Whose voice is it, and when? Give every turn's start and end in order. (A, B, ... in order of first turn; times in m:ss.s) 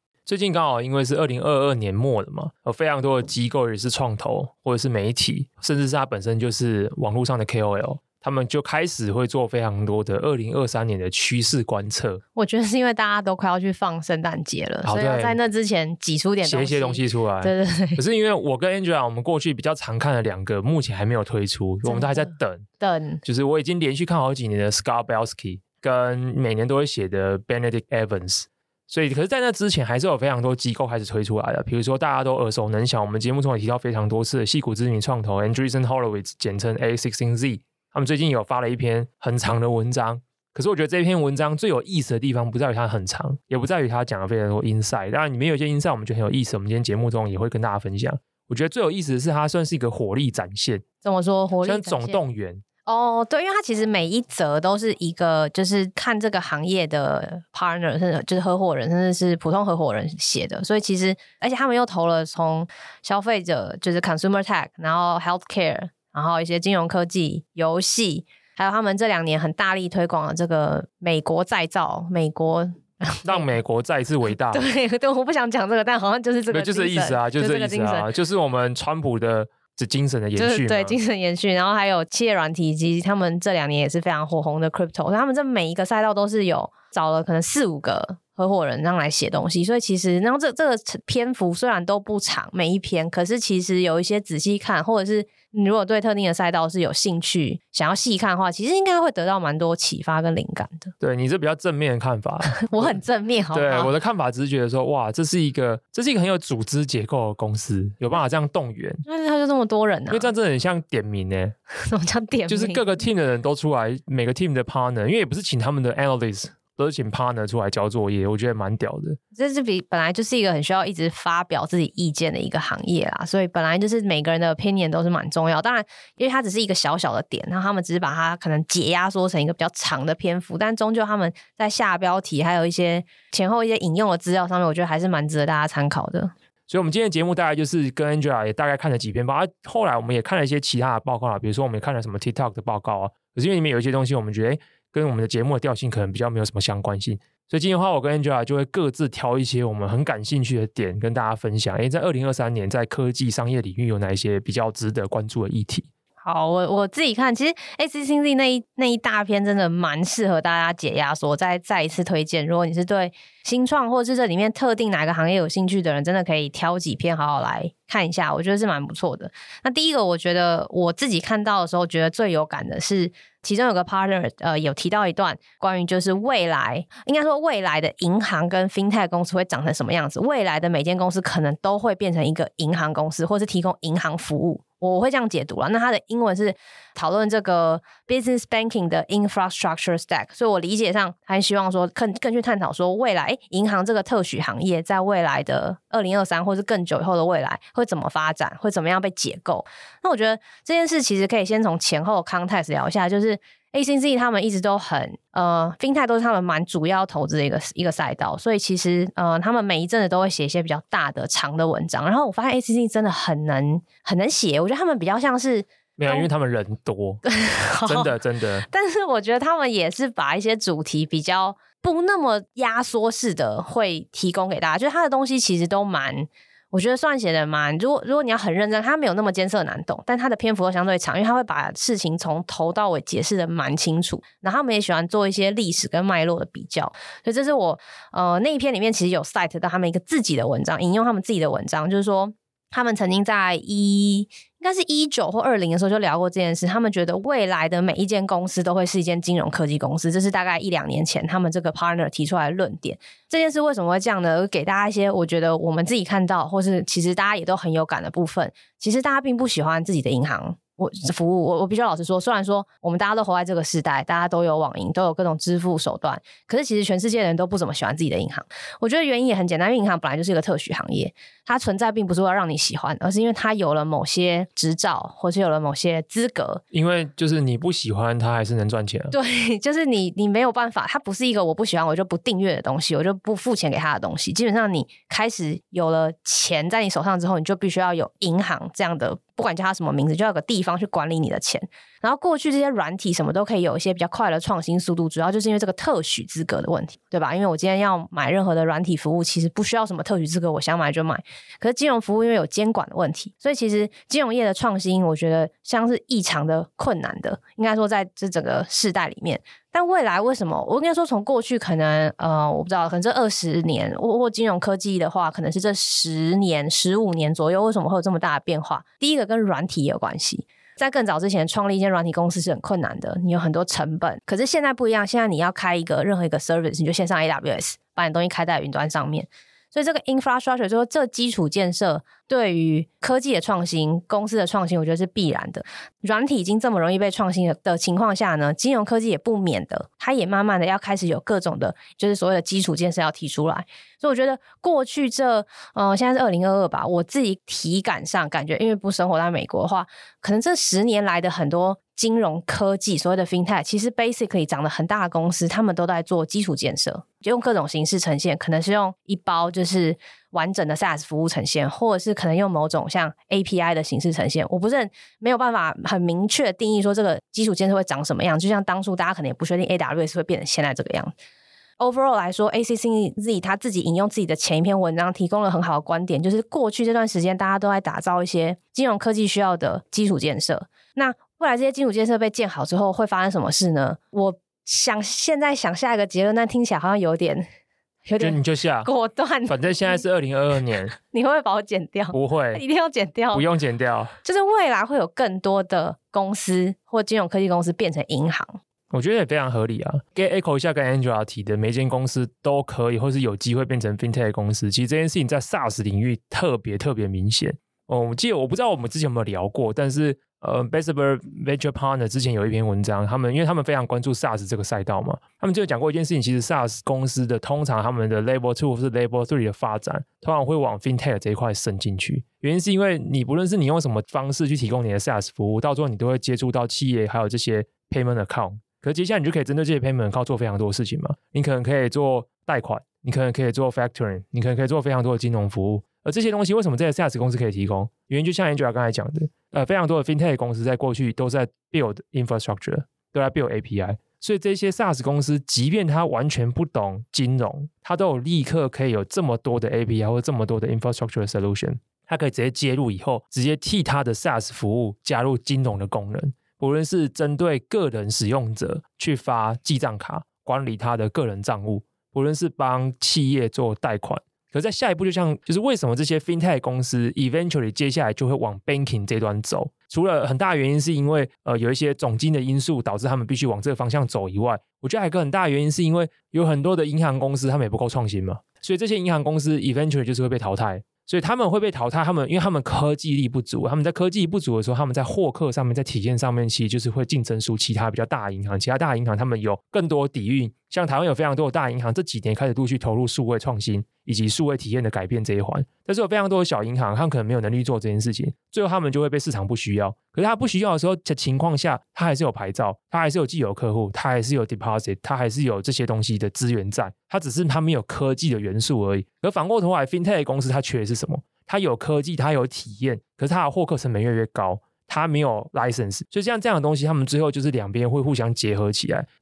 0:00.3-0:12.2 A
0:12.4-0:18.0 B
0:14.8-0:15.4 A
0:16.4-0:22.7 A
0:21.8-0:23.2 B
0:23.2-0:50.8 A
0:51.0-0:52.2 B
0:51.6-0:52.6 A
0:52.8-1:13.5 B
1:13.2-1:14.6 A
1:14.5-1:18.1 B
1:16.5-1:21.0 A
1:20.4-1:40.9 B
1:41.0-1:43.0 A
1:42.5-1:43.9 B
1:43.5-1:49.0 A
1:49.0-1:50.3 B
1:50.1-1:51.6 A
1:51.7-1:52.8 B
1:52.5-1:59.2 A
1:59.3-2:16.3 B
2:16.7-2:35.9 A
2:36.2-3:36.3 B
3:36.0-3:37.2 A
3:37.3-3:38.1 B
3:37.8-3:38.7 A
3:38.7-4:36.6 B
4:36.7-4:39.1 A
4:39.1-6:11.1 B
6:11.8-6:27.4 B
6:28.1-6:30.0 B
6:28.2-6:28.9 A
6:29.5-6:30.9 A
6:30.9-6:33.4 B
6:32.1-6:32.6 A
6:33.3-6:34.1 A
6:34.2-6:38.6 B
6:38.9-8:39.1 A